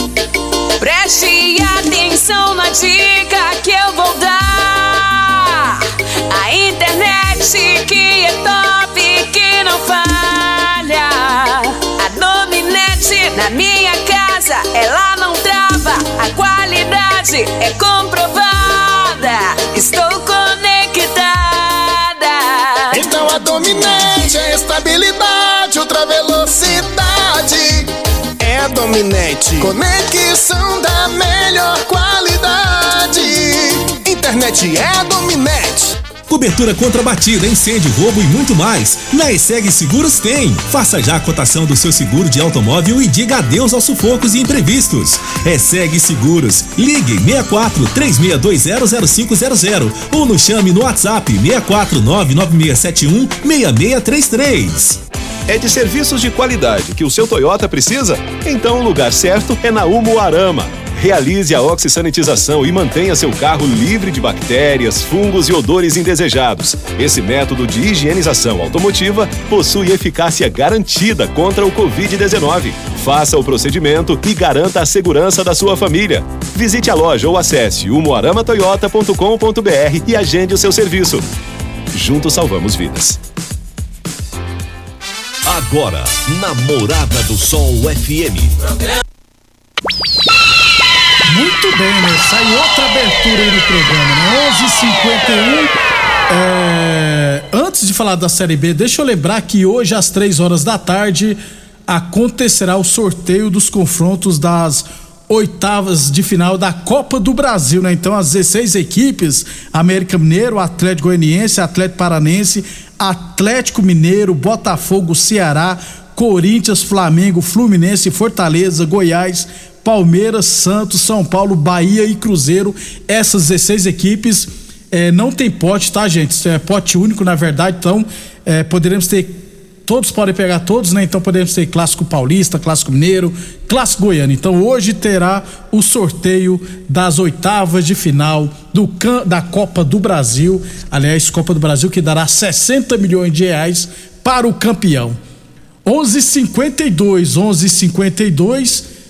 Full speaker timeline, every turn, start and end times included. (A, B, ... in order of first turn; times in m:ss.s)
0:00.8-0:23.0 A
0:22.9-0:27.9 B
0:28.4-0:36.0 B
0:36.3-0:55.0 C
0:55.5-1:21.2 D
1:21.9-1:23.2 D
1:25.4-1:28.6 E
1:31.3-1:35.7 F
1:36.3-2:25.2 F
2:25.8-2:28.8 F